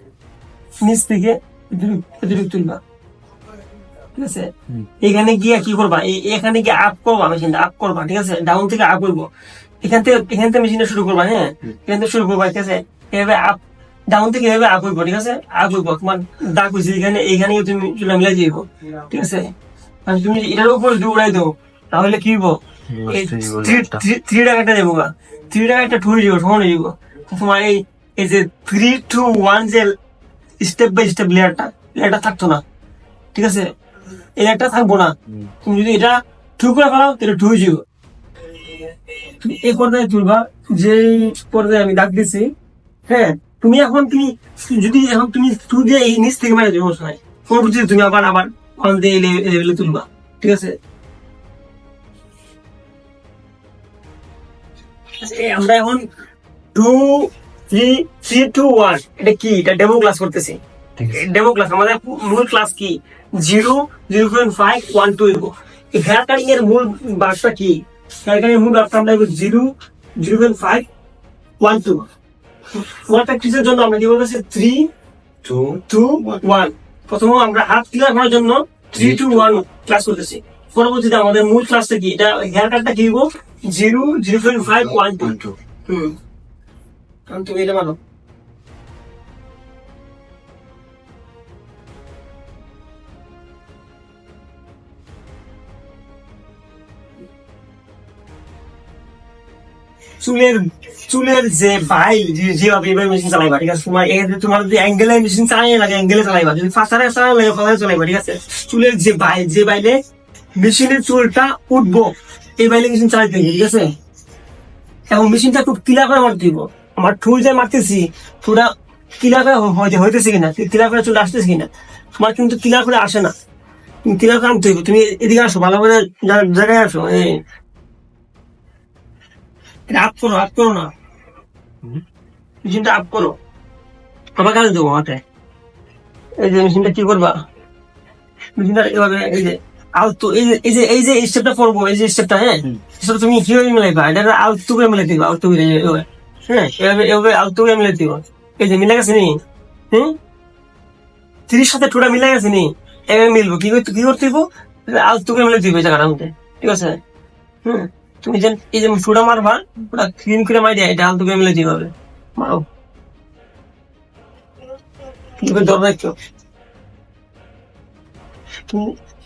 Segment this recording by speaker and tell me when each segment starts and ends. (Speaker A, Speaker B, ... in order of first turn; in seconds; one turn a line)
Speaker A: 0.8-2.8
Speaker A: 4.1-9.3
Speaker A: 9.8-19.5
Speaker A: 20.1-29.9
Speaker B: 22.9-24.0
Speaker A: 30.6-32.6
Speaker A: 33.3-33.7
Speaker A: 34.4-37.8
Speaker A: 38.5-42.5
Speaker A: 43.1-50.8
Speaker A: 55.2-56.1
Speaker A: 56.7-70.9
Speaker A: 71.6-72.1
Speaker A: 72.7-74.9
Speaker B: 75.5-75.8
Speaker A: 75.8-86.2
Speaker B: 79.0-79.2
Speaker B: 85.3-85.5
Speaker A: 87.3-88.0
Speaker A: 100.2-110.0
Speaker A: 110.6-114.0
Speaker A: 115.1-123.3
Speaker A: 124.0-127.4
Speaker A: 129.9-130.9
Speaker A: 132.6-133.4
Speaker A: 134.4-135.2
Speaker A: 136.4-137.4
Speaker A: 138.6-150.2
Speaker A: 151.5-157.0
Speaker A: 157.6-162.7
Speaker A: 165.4-166.2
Speaker A: 168.7-169.0